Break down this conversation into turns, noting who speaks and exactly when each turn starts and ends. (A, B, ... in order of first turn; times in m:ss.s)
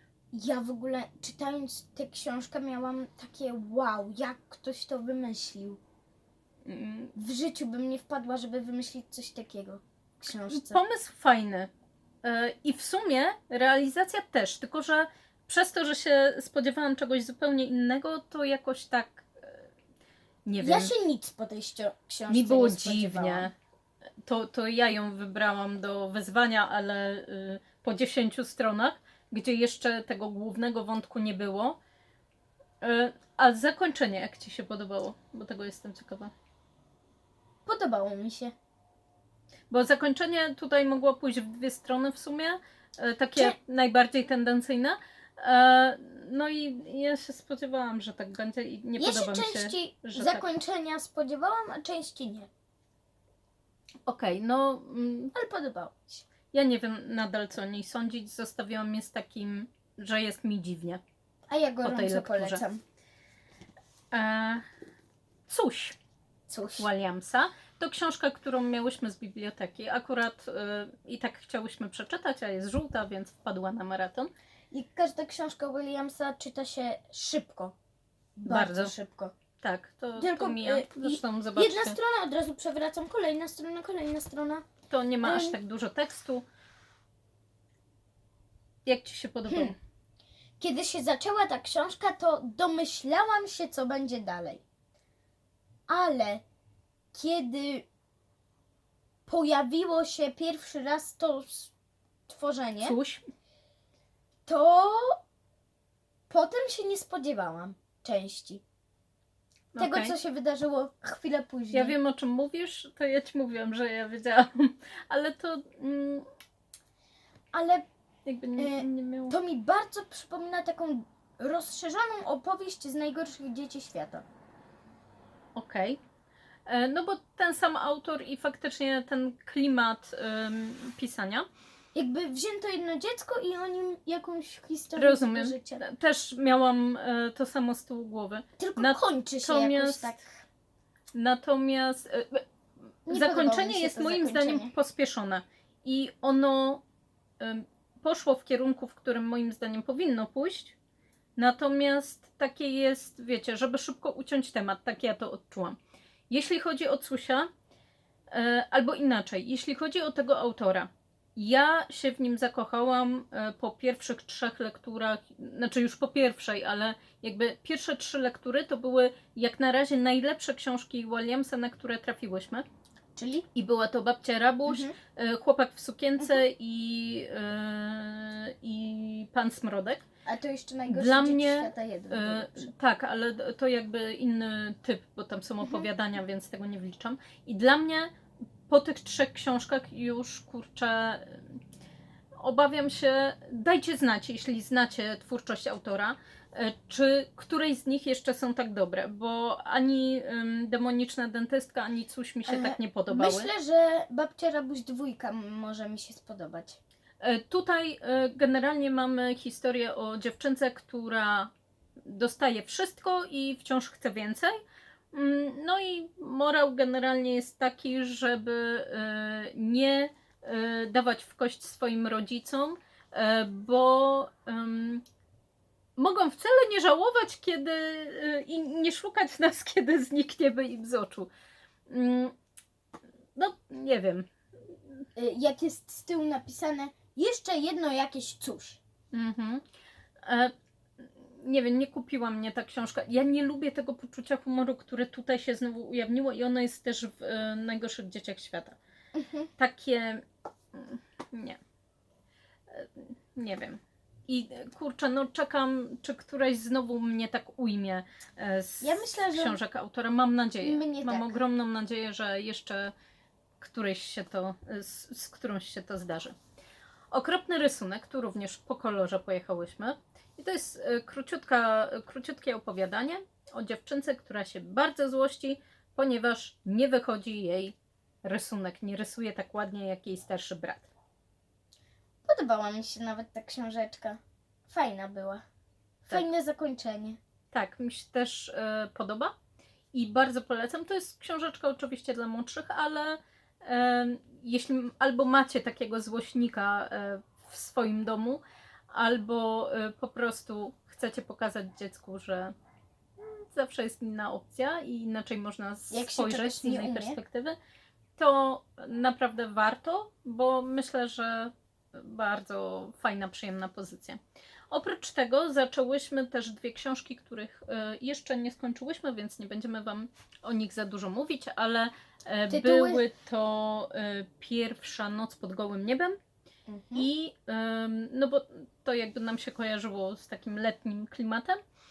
0:00.3-0:05.8 A
0:06.6-0:07.1 B
0:07.1-0:10.8 A
0:10.5-0:11.7 B
0:12.2-0:19.7 B
0:20.4-0:20.9 B
0:20.6-0:23.5 A
0:22.3-0:23.5 B
0:24.2-0:31.8 B
0:32.8-0:36.3 B
0:37.7-0:38.5 A
0:39.7-0:50.4 B
0:49.0-0:52.5 A
0:54.1-0:55.3 B
0:55.3-0:56.2 A
0:56.5-1:01.0 B
1:01.5-1:02.8 A
1:01.8-1:02.6 B
1:04.1-1:04.6 B
1:05.5-1:06.0 B
1:06.5-1:06.9 A
1:06.8-1:14.3 B
1:14.7-1:17.7 A
1:18.4-1:19.3 A
1:18.4-1:18.9 B
1:19.6-1:22.0 B
1:20.2-1:24.6 A
1:24.9-1:26.4 B
1:25.2-1:25.6 A
1:28.8-1:29.8 B
1:30.6-1:34.6 A
1:35.9-1:36.4 A
1:37.1-1:37.9 A
1:39.2-1:41.7 A
1:42.3-1:43.0 A
1:42.8-1:43.2 B
1:44.4-1:45.2 A
1:46.3-1:48.6 A
1:49.7-1:50.1 B
1:49.8-1:52.0 A
1:51.7-1:56.2 B
1:57.5-1:57.9 A
1:58.2-1:59.4 B
1:58.6-2:04.2 A
2:05.6-2:06.0 B
2:06.7-2:11.5 B
2:11.9-2:15.8 A
2:15.0-2:20.2 B
2:18.6-2:20.4 A
2:21.1-2:22.4 B
2:23.1-2:24.7 A
2:23.1-2:26.8 B
2:27.4-2:30.8 B
2:31.4-2:35.8 B
2:36.3-2:37.5 B
2:38.3-2:52.7 B
2:53.2-2:53.5 A
2:53.5-3:00.0 B
2:54.7-2:54.9 A
3:00.2-3:02.7 A
3:00.9-3:08.1 B
3:05.6-3:05.9 A
3:08.7-3:11.6 B
3:12.4-3:23.5 B
3:22.5-3:26.8 A
3:27.2-3:31.5 B
3:32.0-3:34.5 B
3:35.1-3:45.0 B
3:46.0-3:51.3 B
3:51.9-3:52.3 B
3:53.4-3:54.3 B
3:55.2-3:58.8 A
3:59.1-3:59.6 B
4:00.2-4:08.8 B
4:09.2-4:09.5 A
4:09.6-4:11.6 B
4:12.7-4:22.9 B
4:18.8-4:19.6 A
4:20.6-4:21.4 A
4:23.6-4:26.3 B
4:27.1-4:40.9 B
4:42.2-4:45.4 A
4:46.0-4:47.2 A
4:47.5-4:49.3 B
4:49.9-5:02.5 B
5:03.2-5:07.6 B
5:05.9-5:07.2 A
5:08.2-5:14.2 B
5:14.7-5:26.2 B
5:22.5-5:23.0 A
5:26.7-5:27.1 A
5:26.9-5:31.6 B